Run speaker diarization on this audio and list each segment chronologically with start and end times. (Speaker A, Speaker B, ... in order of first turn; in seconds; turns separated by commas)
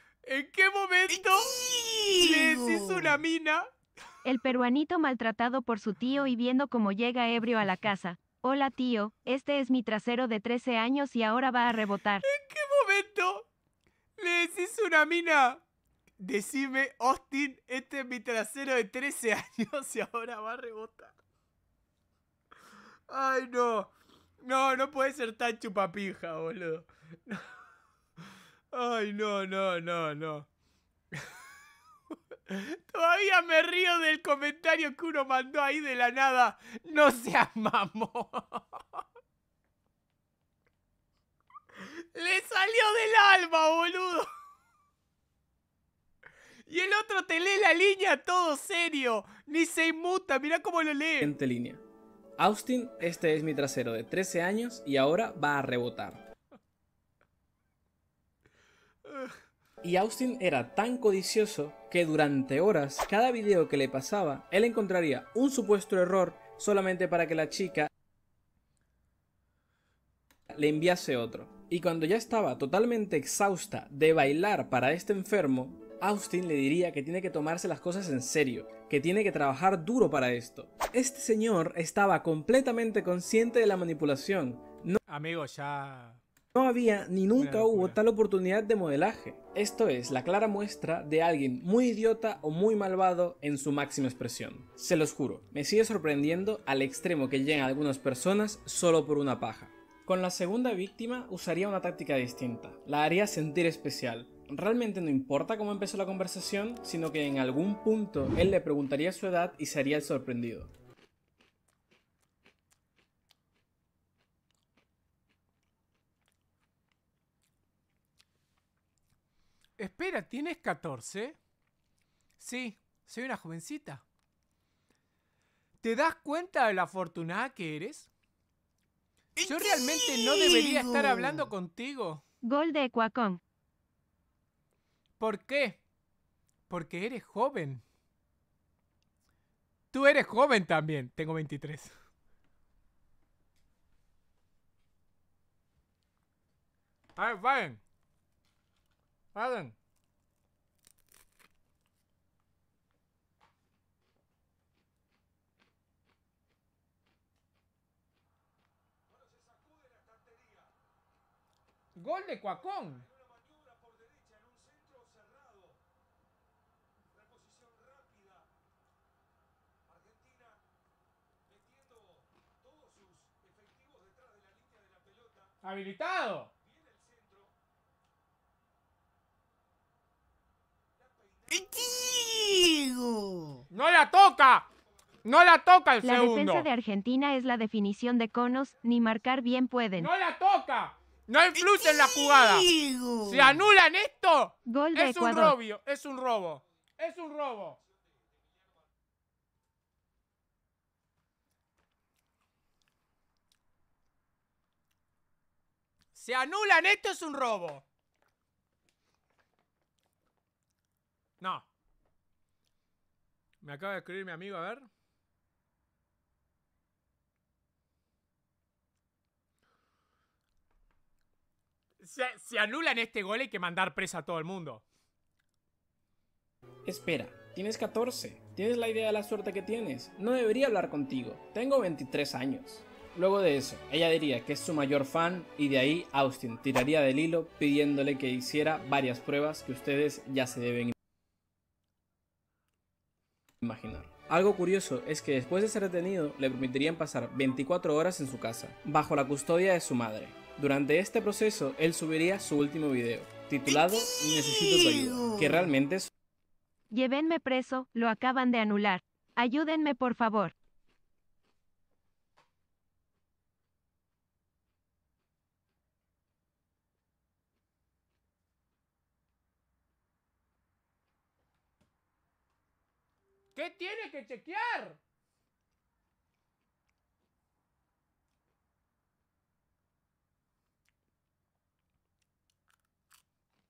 Speaker A: 0.2-3.7, Speaker B: 4.2-12.2, Speaker A: 12.3-13.5, Speaker A: 14.2-15.6, Speaker A: 16.2-21.1, Speaker A: 23.1-27.5, Speaker A: 28.7-30.5, Speaker A: 32.5-39.0, Speaker A: 41.8-44.3, Speaker A: 46.7-51.3, Speaker C: 51.2-51.8, Speaker C: 52.4-56.3, Speaker C: 59.8-67.9, Speaker C: 70.5-85.0, Speaker A: 85.1-86.2, Speaker C: 86.5-110.7, Speaker A: 87.4-88.0, Speaker A: 119.8-121.4, Speaker A: 122.4-124.0, Speaker A: 125.8-128.1, Speaker A: 129.4-132.2, Speaker B: 132.4-133.4, Speaker A: 135.2-135.8, Speaker A: 136.7-137.8, Speaker A: 139.9-141.9, Speaker A: 147.2-147.8, Speaker A: 149.3-149.8, Speaker A: 162.0-163.1, Speaker A: 175.6-176.5, Speaker A: 183.7-184.7, Speaker A: 185.2-186.7, Speaker B: 186.0-190.1, Speaker A: 190.0-197.8, Speaker B: 194.7-195.6, Speaker A: 206.1-207.8, Speaker A: 211.4-211.7, Speaker A: 213.6-214.9, Speaker A: 222.0-224.8, Speaker C: 226.8-240.9, Speaker C: 243.6-256.1, Speaker B: 256.9-260.5, Speaker A: 273.6-275.0